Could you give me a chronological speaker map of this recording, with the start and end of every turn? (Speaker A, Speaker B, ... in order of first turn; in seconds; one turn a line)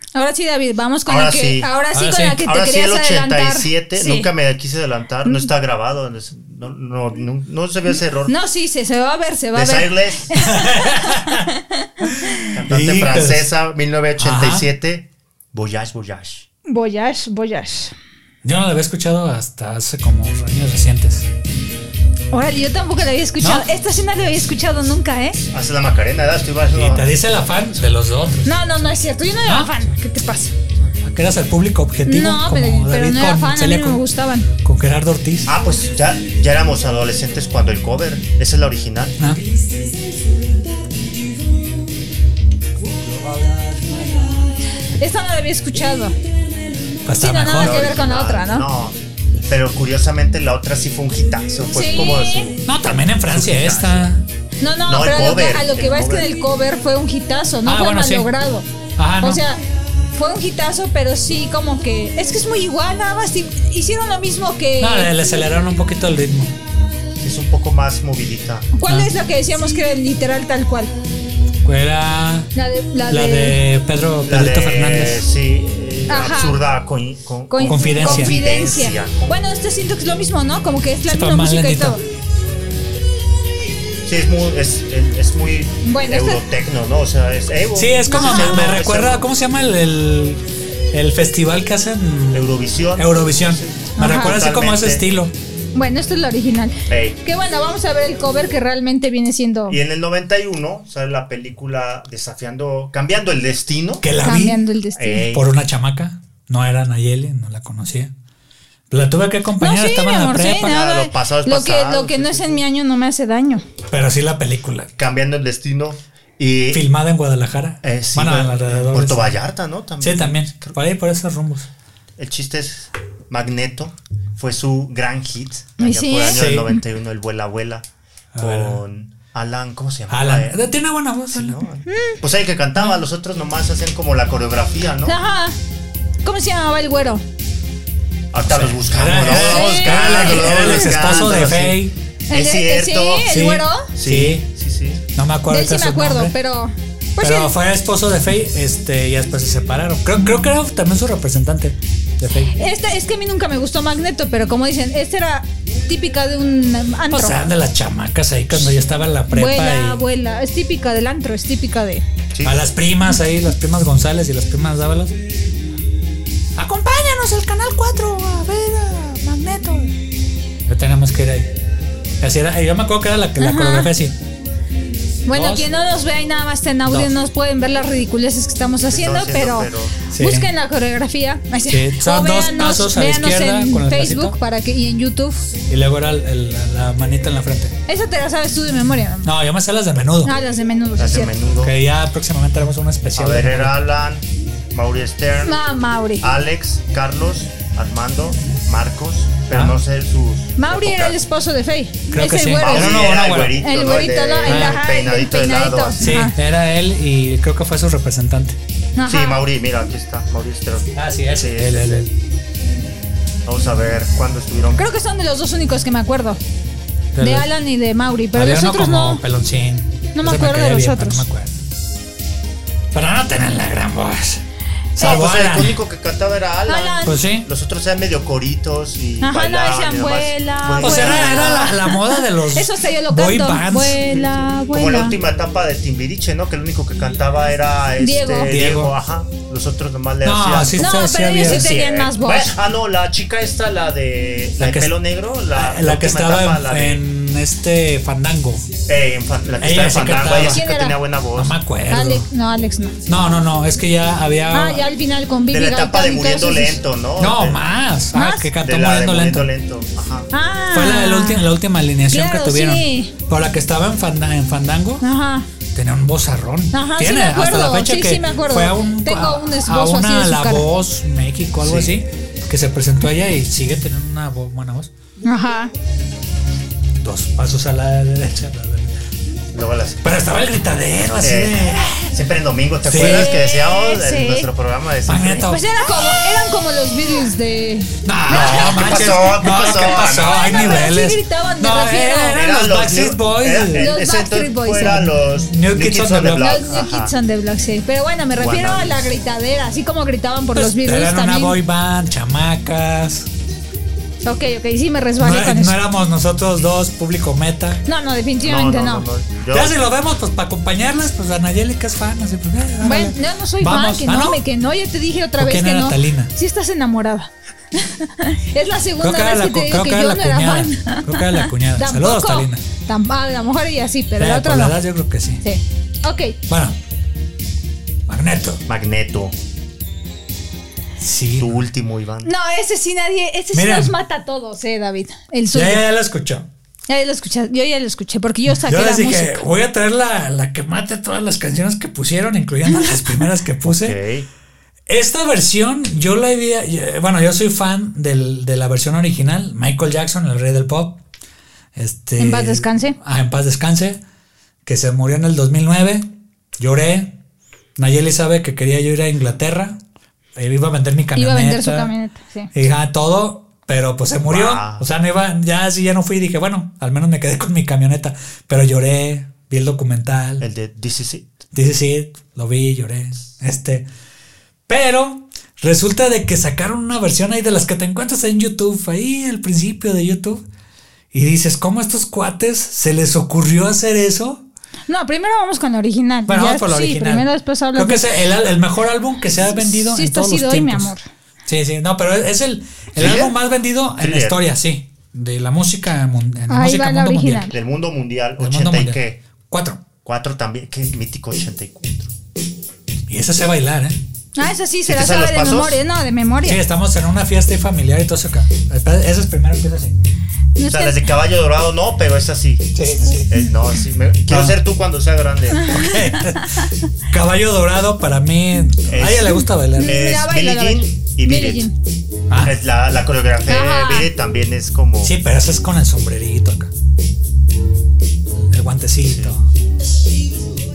Speaker A: 0.1-4.3
Speaker B: 1.1-1.7
Speaker C: 1.9-2.4
Speaker B: 2.3-8.3
Speaker A: 8.3-12.4
Speaker B: 9.5-10.3
Speaker C: 10.4-11.5
Speaker C: 12.0-13.5
Speaker B: 12.5-16.4
Speaker C: 14.2-14.7
Speaker A: 16.6-17.9
Speaker C: 18.4-21.2
Speaker A: 22.3-25.4
Speaker C: 23.4-23.6
Speaker B: 25.5-27.1
Speaker C: 26.7-28.8
Speaker A: 28.4-30.5
Speaker C: 29.4-29.7
Speaker C: 31.0-34.0
Speaker A: 32.1-34.5
Speaker C: 34.6-35.5
Speaker B: 35.5-39.1
Speaker A: 45.0-46.1
Speaker C: 47.1-47.8
Speaker A: 47.2-48.7
Speaker B: 47.5-54.1
Speaker A: 51.7-52.5
Speaker C: 52.6-54.2
Speaker A: 54.6-58.7
Speaker B: 54.9-56.4
Speaker C: 57.6-58.3
Speaker C: 59.0-59.4
Speaker A: 59.2-59.6
Speaker A: 60.1-65.1
Speaker C: 64.8-66.6
Speaker B: 67.2-68.7
Speaker A: 68.7-70.9
Speaker C: 71.6-72.5
Speaker A: 72.5-73.6
Speaker C: 73.1-75.2
Speaker B: 74.2-79.4
Speaker A: 76.1-76.6
Speaker A: 77.5-82.0
Speaker C: 77.7-78.4
Speaker C: 81.1-82.0
Speaker B: 84.1-89.2
Speaker A: 85.8-86.4
Speaker C: 87.8-95.3
Speaker A: 88.1-88.6
Speaker B: 92.3-95.0
Speaker A: 94.0-94.4
Speaker A: 95.7-99.8
Speaker B: 96.9-97.2
Speaker B: 99.7-104.1
Speaker C: 104.0-104.6
Speaker A: 104.2-105.3
Speaker B: 104.9-105.5
Speaker C: 105.3-108.1
Speaker C: 108.9-110.7
Speaker A: 109.6-113.6
Speaker B: 110.5-112.6
Speaker C: 113.9-114.9
Speaker B: 115.0-116.8
Speaker C: 116.7-119.4
Speaker B: 117.8-120.8
Speaker C: 120.0-121.7
Speaker B: 122.2-127.9
Speaker A: 125.8-126.7
Speaker C: 126.3-126.7
Speaker C: 128.3-128.8
Speaker B: 128.4-130.6
Speaker C: 130.1-131.6
Speaker B: 131.3-135.2
Speaker A: 131.9-132.2
Speaker A: 135.1-135.6
Speaker A: 136.2-137.2
Speaker B: 138.3-143.3
Speaker C: 138.4-141.9
Speaker A: 139.2-140.8
Speaker A: 142.3-143.9
Speaker C: 143.3-144.4
Speaker B: 143.9-145.0
Speaker C: 145.1-146.3
Speaker A: 145.5-147.5
Speaker C: 147.2-152.6
Speaker A: 152.5-157.5
Speaker C: 157.1-160.0
Speaker A: 159.3-162.0
Speaker B: 162.3-162.6
Speaker C: 162.4-165.2
Speaker C: 166.6-169.9
Speaker C: 170.7-171.5
Speaker C: 172.2-174.1
Speaker A: 173.4-173.9
Speaker A: 175.2-185.5
Speaker C: 175.3-175.7
Speaker C: 176.9-177.1
Speaker B: 178.8-179.9
Speaker C: 180.1-180.5
Speaker C: 181.7-184.4
Speaker C: 185.7-187.7
Speaker A: 187.9-189.3
Speaker C: 189.2-190.3
Speaker A: 190.2-191.3
Speaker B: 191.0-191.7
Speaker C: 191.6-193.8
Speaker B: 193.1-195.6
Speaker A: 195.4-196.3
Speaker B: 196.2-201.2
Speaker C: 199.5-199.8
Speaker A: 200.6-206.3
Speaker C: 202.1-203.6
Speaker B: 202.6-206.1
Speaker C: 204.4-204.8
Speaker C: 206.0-208.6
Speaker A: 208.9-209.4
Speaker B: 209.0-212.1
Speaker C: 210.9-212.1
Speaker B: 213.4-214.9
Speaker A: 214.8-216.4
Speaker C: 217.1-217.5
Speaker A: 217.2-219.2
Speaker C: 218.3-221.6
Speaker A: 220.1-221.2
Speaker C: 222.9-224.4
Speaker C: 225.0-225.7
Speaker B: 225.0-231.7
Speaker A: 226.7-227.2
Speaker C: 227.0-227.5
Speaker A: 229.2-235.2
Speaker C: 230.8-234.0
Speaker B: 234.2-247.0
Speaker A: 238.0-238.5
Speaker C: 238.5-238.9
Speaker C: 240.2-241.7
Speaker A: 240.8-242.5
Speaker C: 244.6-244.9
Speaker C: 245.5-248.7
Speaker B: 248.9-251.5
Speaker C: 249.6-250.6
Speaker A: 250.5-251.0
Speaker C: 251.4-252.2
Speaker A: 251.9-253.0
Speaker C: 253.1-254.8
Speaker A: 254.5-256.8
Speaker B: 255.5-257.6
Speaker C: 257.2-259.5
Speaker A: 258.1-258.5
Speaker B: 258.6-260.3
Speaker A: 260.3-261.5
Speaker C: 260.7-265.1
Speaker A: 262.1-263.1
Speaker A: 265.0-265.5
Speaker C: 265.7-274.9
Speaker A: 266.7-270.7
Speaker B: 271.6-271.9
Speaker A: 275.2-275.7
Speaker C: 277.0-278.9
Speaker B: 279.5-280.2
Speaker C: 280.0-282.1
Speaker B: 281.2-285.5
Speaker C: 282.9-283.3
Speaker A: 283.0-284.5
Speaker C: 285.1-285.6
Speaker A: 285.4-292.4
Speaker C: 288.0-293.9
Speaker B: 288.3-290.9
Speaker B: 292.3-297.1
Speaker A: 293.7-295.1
Speaker C: 295.4-296.5
Speaker A: 296.4-301.6
Speaker B: 298.4-299.1
Speaker C: 300.5-303.3
Speaker A: 304.2-305.8
Speaker C: 305.2-307.8
Speaker A: 307.9-309.1
Speaker B: 308.4-309.8
Speaker C: 309.5-314.4
Speaker A: 312.8-324.8
Speaker C: 315.4-316.3
Speaker C: 319.0-322.6
Speaker C: 324.2-325.4
Speaker A: 325.4-326.4
Speaker C: 326.5-326.8
Speaker C: 328.1-328.6
Speaker B: 328.7-329.3
Speaker C: 331.0-331.6
Speaker B: 331.4-332.3
Speaker A: 332.2-335.8
Speaker C: 333.5-333.9
Speaker C: 335.5-336.4
Speaker A: 336.9-339.4
Speaker C: 338.4-344.0
Speaker B: 343.8-344.3
Speaker C: 344.9-351.0
Speaker C: 351.8-354.0
Speaker A: 352.2-353.0
Speaker C: 354.6-356.1
Speaker C: 356.6-357.2
Speaker C: 357.8-359.8
Speaker C: 360.4-361.9
Speaker A: 361.1-362.5
Speaker C: 362.5-370.4
Speaker B: 364.2-364.9
Speaker B: 370.4-371.3
Speaker C: 371.5-373.9
Speaker C: 374.7-380.4
Speaker C: 381.1-384.4
Speaker A: 384.9-388.1
Speaker C: 386.3-390.9
Speaker A: 389.6-391.0
Speaker C: 391.5-397.4
Speaker B: 392.9-393.4
Speaker B: 394.0-394.4
Speaker A: 396.5-397.5
Speaker B: 397.4-399.2
Speaker C: 398.4-399.8
Speaker B: 400.0-402.1
Speaker C: 403.1-404.0
Speaker A: 404.4-406.6
Speaker B: 404.9-405.8
Speaker C: 406.4-409.9
Speaker A: 410.6-411.1
Speaker B: 410.6-415.8
Speaker C: 412.7-413.3
Speaker C: 414.3-414.6
Speaker A: 415.6-416.6
Speaker C: 415.6-419.9
Speaker B: 418.9-421.7
Speaker A: 419.8-421.7
Speaker C: 422.3-422.5
Speaker B: 422.4-425.1
Speaker A: 423.5-424.1
Speaker C: 425.0-426.7
Speaker C: 428.5-429.5
Speaker B: 429.0-429.3